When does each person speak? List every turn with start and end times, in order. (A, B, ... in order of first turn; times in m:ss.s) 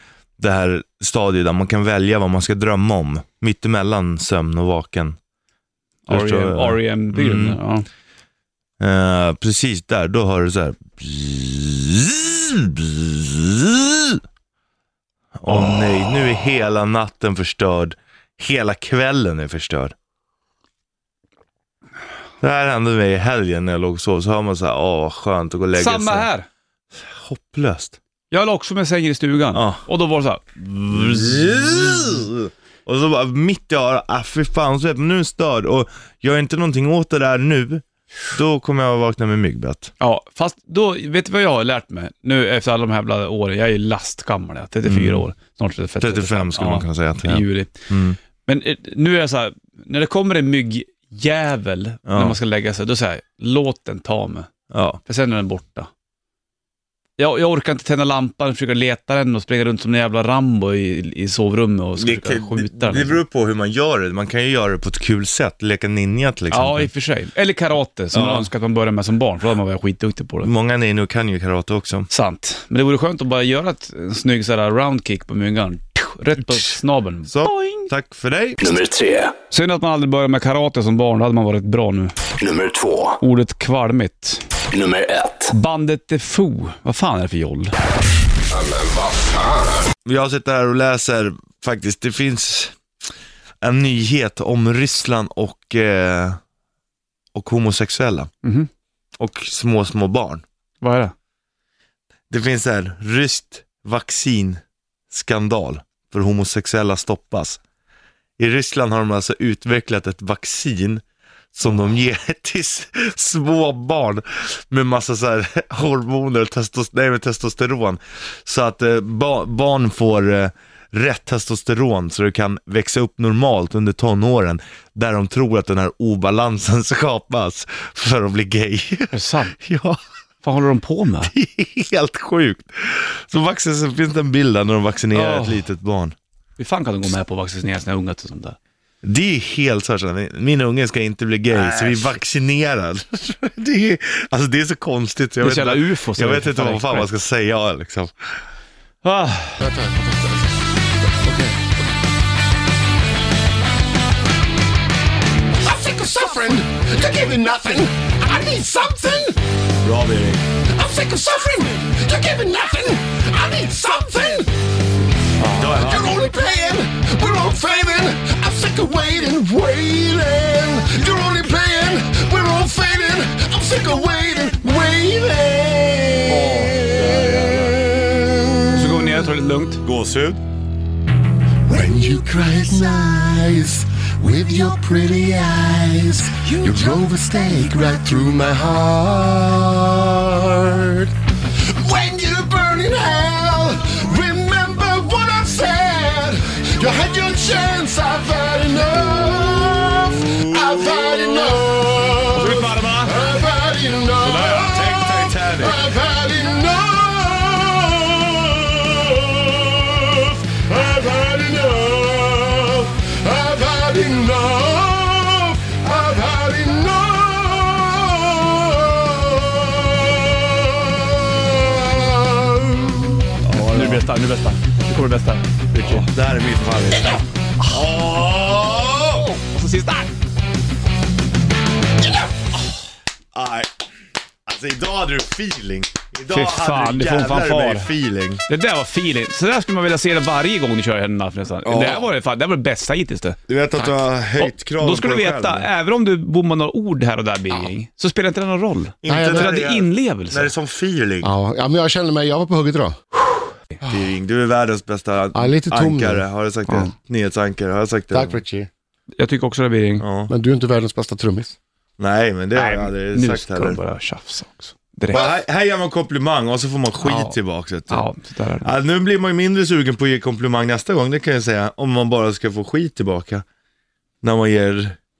0:00.4-0:05.2 A
0:06.0-0:07.9 B
0:06.1-0:07.6 A
0:08.8-0:14.2 A
0:15.4-0:19.9 A
0:22.4-0:26.3 A
0:25.7-0:26.4 B
0:27.0-0:28.0 A
0:28.3-0:31.2 B
0:29.5-0:29.8 A
0:30.8-0:39.9 A
0:40.0-0:47.7 B
0:44.8-0:45.2 A
0:46.0-0:48.2 A
0:48.4-0:54.5 B
0:52.1-0:52.4 A
0:54.7-0:55.0 A
0:55.0-0:55.9 B
0:57.2-1:03.2 B
1:02.0-1:06.9 A
1:06.5-1:10.5 B
1:08.1-1:08.5 A
1:10.4-1:12.1 A
1:12.1-1:17.9 B
1:17.3-1:18.7 A
1:18.6-1:19.3 C
1:19.5-1:22.1 B
1:22.4-1:23.1 C
1:23.2-1:24.4 B
1:24.8-1:25.3 C
1:25.5-1:27.7 B
1:30.0-1:32.7 A
1:33.6-1:36.4 A
1:37.3-1:38.3 A
1:38.4-1:38.7 B
1:39.2-1:40.4 A
1:40.8-1:41.1 B
1:42.3-1:44.6 A
1:45.1-1:47.6 A
1:48.4-1:51.0 A
1:51.5-2:10.0 A
2:09.1-2:09.6 B
2:10.4-2:11.3 B
2:11.2-2:16.1 A
2:15.1-2:15.7 B
2:16.6-2:18.6 B
2:19.0-2:28.1 A
2:21.5-2:22.2 B
2:25.4-2:27.1 B
2:29.0-2:29.6 B
2:29.6-2:30.5 D
2:31.2-2:31.6 D
2:35.6-2:39.4 D
2:39.8-2:40.4 A
2:40.7-2:44.5 D
2:45.4-2:45.9 B
2:45.5-2:46.1 A
2:45.7-2:59.0 D
2:56.3-2:57.8 B
2:58.7-2:59.8 B
2:59.8-3:00.4 A
3:01.7-3:11.1 D
3:11.8-3:43.3 D
3:20.4-3:21.2 A
3:22.3-3:23.2 B
3:24.2-3:25.8 A
3:43.4-3:44.0 A
3:43.5-3:46.1 B
3:45.7-3:49.4 A
3:49.2-3:50.1 B
3:53.3-3:53.7 A
3:54.5-3:58.4 A
3:56.3-3:57.9 B
3:58.5-4:10.5 B
4:01.6-4:02.1 A
4:03.5-4:05.7 A
4:09.0-4:11.3 A
4:09.0-4:09.6 D
4:11.2-4:12.9 D
4:13.8-4:18.4 A
4:15.3-4:16.2 D
4:18.1-4:18.7 D
4:19.2-4:20.0 B
4:20.0-4:20.3 A
4:20.3-4:21.5 D
4:22.0-4:23.8 A
4:22.5-4:25.3 B
4:25.1-4:28.1 A
4:27.0-4:27.4 B
4:27.9-4:28.7 B
4:28.6-4:33.4 A
4:34.2-4:35.0 A